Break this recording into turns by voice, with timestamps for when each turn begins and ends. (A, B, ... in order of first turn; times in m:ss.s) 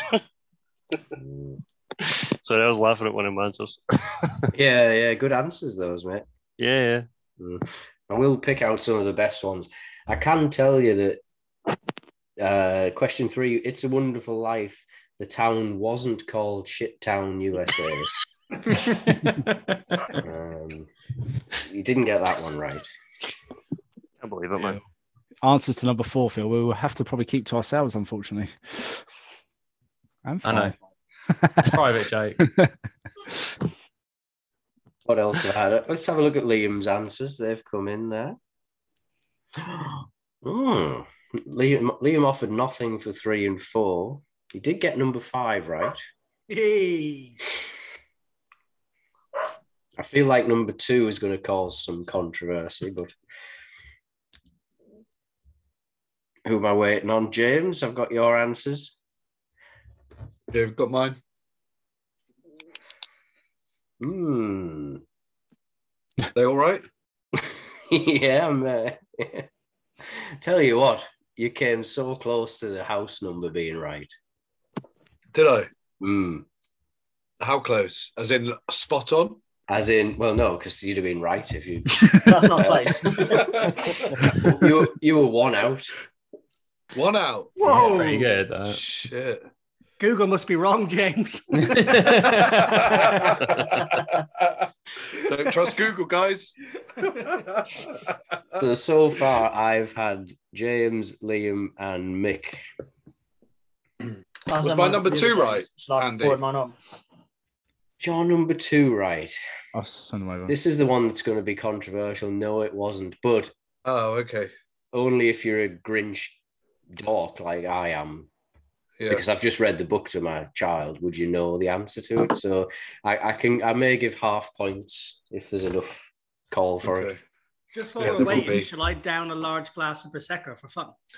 0:01.1-0:01.6 A
0:02.0-0:04.4 B
0:04.5-0:06.2 A
0:06.6-0:07.0 B
0:07.4-0:11.2 A
0:12.4-0:18.1 A
0:20.1-0:20.9 A
0:21.5-0:22.9 A
0:24.2-0:24.8 B
0:25.4-0:29.0 C
0:30.2-0:30.8 C
0:30.4-0:30.8 D
0:31.3-0:31.8 C
0:31.6-0:32.4 D
0:32.4-0:32.7 C
0:35.0-0:38.4 A
0:39.6-0:46.0 A
0:46.5-0:47.4 E
0:50.0-0:53.1 A
0:56.4-0:59.0 A
1:00.5-1:01.2 F
1:04.0-1:05.0 A
1:06.3-1:06.8 F
1:07.4-1:09.5 A
1:10.0-1:14.1 A
1:15.3-1:15.7 F
1:16.0-1:16.4 A
1:17.4-1:19.4 F
1:19.7-1:23.5 A
1:22.2-1:23.6 G
1:23.3-1:23.7 F
1:24.2-1:25.9 A
1:26.9-1:29.4 F
1:27.6-1:28.3 E
1:27.6-1:28.8 D
1:30.0-1:32.2 E
1:31.6-1:33.0 D
1:32.4-1:33.6 F
1:34.4-1:36.5 F
1:37.4-1:37.8 F
1:38.6-1:42.6 A
1:44.5-1:46.8 G
1:44.6-1:46.4 F
1:48.0-1:49.4 A
1:49.7-1:50.5 C
1:50.5-1:53.5 A
1:53.8-1:54.5 F
1:54.9-1:56.4 A
1:56.9-1:58.3 A
1:59.1-2:07.1 A
2:06.8-2:07.2 F
2:07.7-2:10.9 E
2:08.0-2:08.7 F